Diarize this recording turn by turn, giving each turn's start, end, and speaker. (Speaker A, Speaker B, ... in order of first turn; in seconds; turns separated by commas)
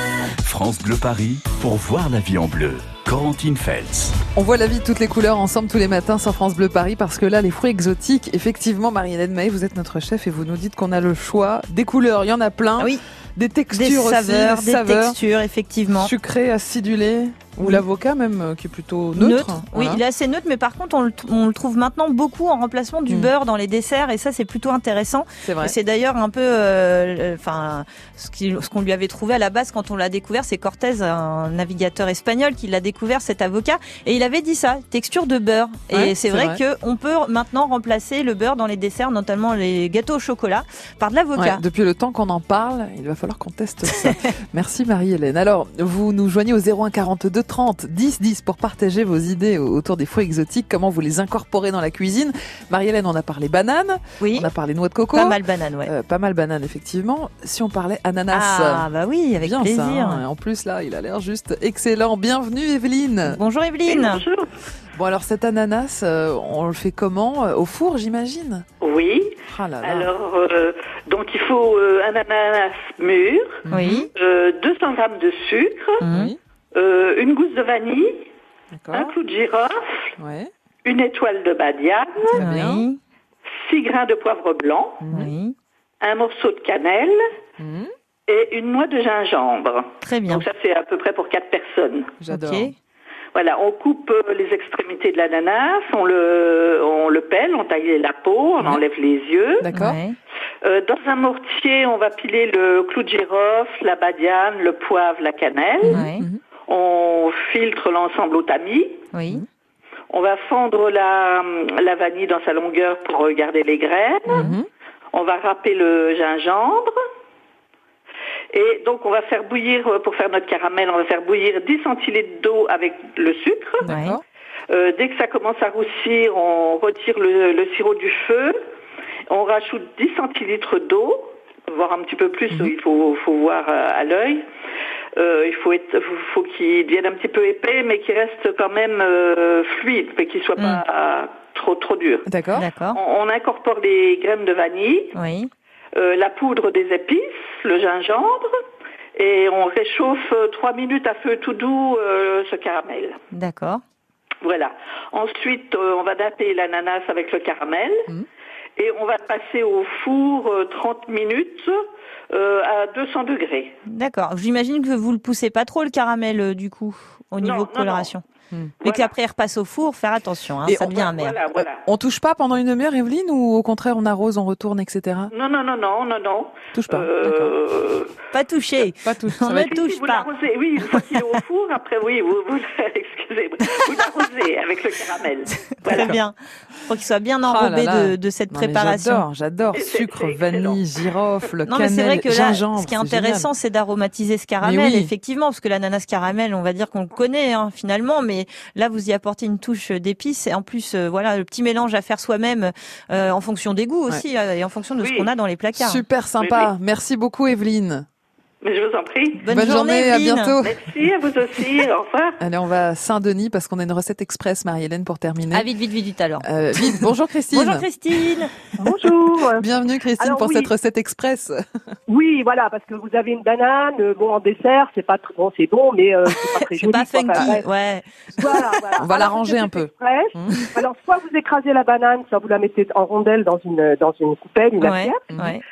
Speaker A: 0.4-4.2, Speaker B: 4.3-15.2, Speaker C: 13.7-16.1, Speaker B: 15.9-20.0, Speaker C: 19.1-41.6, Speaker B: 25.4-25.8, Speaker B: 35.9-36.6, Speaker B: 41.3-58.9, Speaker C: 54.2-54.5, Speaker C: 55.1-55.9, Speaker C: 58.3-60.2, Speaker B: 59.4-63.4, Speaker C: 63.2-64.2, Speaker D: 63.9-64.5, Speaker B: 64.9-68.7, Speaker D: 68.8-73.6, Speaker B: 69.5-70.1, Speaker B: 73.7-74.1, Speaker C: 73.7-74.1, Speaker D: 74.1-76.0, Speaker C: 76.0-76.3, Speaker B: 76.1-76.4, Speaker D: 76.7-78.2, Speaker B: 78.7-79.1, Speaker D: 78.9-79.8, Speaker B: 80.2-80.5, Speaker D: 80.8-82.3, Speaker B: 82.3-82.8, Speaker C: 82.3-83.0, Speaker D: 83.5-85.0, Speaker B: 85.0-85.3, Speaker C: 85.1-85.5, Speaker D: 86.0-87.2, Speaker B: 87.6-87.9, Speaker D: 88.3-92.2, Speaker C: 90.0-90.5, Speaker B: 92.2-92.7, Speaker C: 92.3-92.7, Speaker D: 93.3-99.6, Speaker B: 99.6-100.0, Speaker C: 99.7-100.2, Speaker D: 100.6-106.0, Speaker C: 105.8-106.3, Speaker B: 105.9-106.4, Speaker D: 106.7-109.0, Speaker C: 109.1-109.4, Speaker D: 110.1-114.5, Speaker B: 114.3-114.7, Speaker D: 115.1-116.9, Speaker D: 118.5-123.8, Speaker B: 123.8-124.2, Speaker C: 123.8-124.1, Speaker D: 124.7-128.6, Speaker D: 129.3-134.4, Speaker D: 135.2-142.2, Speaker C: 140.6-140.8, Speaker B: 142.3-142.7, Speaker C: 142.6-143.0, Speaker D: 142.9-145.1, Speaker C: 145.1-145.5, Speaker D: 145.9-148.5, Speaker D: 149.1-153.2, Speaker C: 153.3-153.8, Speaker D: 154.4-158.1, Speaker D: 158.8-161.8, Speaker D: 162.3-163.7, Speaker C: 163.9-168.2, Speaker D: 167.4-168.1, Speaker C: 168.8-171.4, Speaker D: 168.8-169.1, Speaker B: 170.6-171.1, Speaker D: 170.8-171.8, Speaker B: 171.8-175.3, Speaker D: 175.3-178.2, Speaker B: 176.7-177.5, Speaker C: 178.3-180.3, Speaker B: 179.0-179.8, Speaker D: 179.6-186.2, Speaker C: 180.8-181.4, Speaker C: 183.6-183.9, Speaker C: 185.6-186.3, Speaker B: 185.9-186.2, Speaker C: 186.8-189.2, Speaker B: 187.4-193.5, Speaker D: 189.7-190.8, Speaker C: 191.7-206.0, Speaker B: 194.6-195.1, Speaker D: 205.0-205.3, Speaker B: 205.7-208.1, Speaker D: 206.4-206.7, Speaker D: 208.6-209.4, Speaker C: 209.4-210.6, Speaker B: 209.5-210.7, Speaker D: 210.6-212.4, Speaker B: 212.4-215.7, Speaker C: 215.5-217.0, Speaker B: 216.4-218.2, Speaker C: 217.5-218.5, Speaker E: 218.8-219.6, Speaker B: 219.3-221.6, Speaker E: 220.2-220.7, Speaker E: 222.1-227.7, Speaker C: 226.7-229.0, Speaker E: 228.4-235.3, Speaker B: 229.0-230.7, Speaker C: 234.8-235.6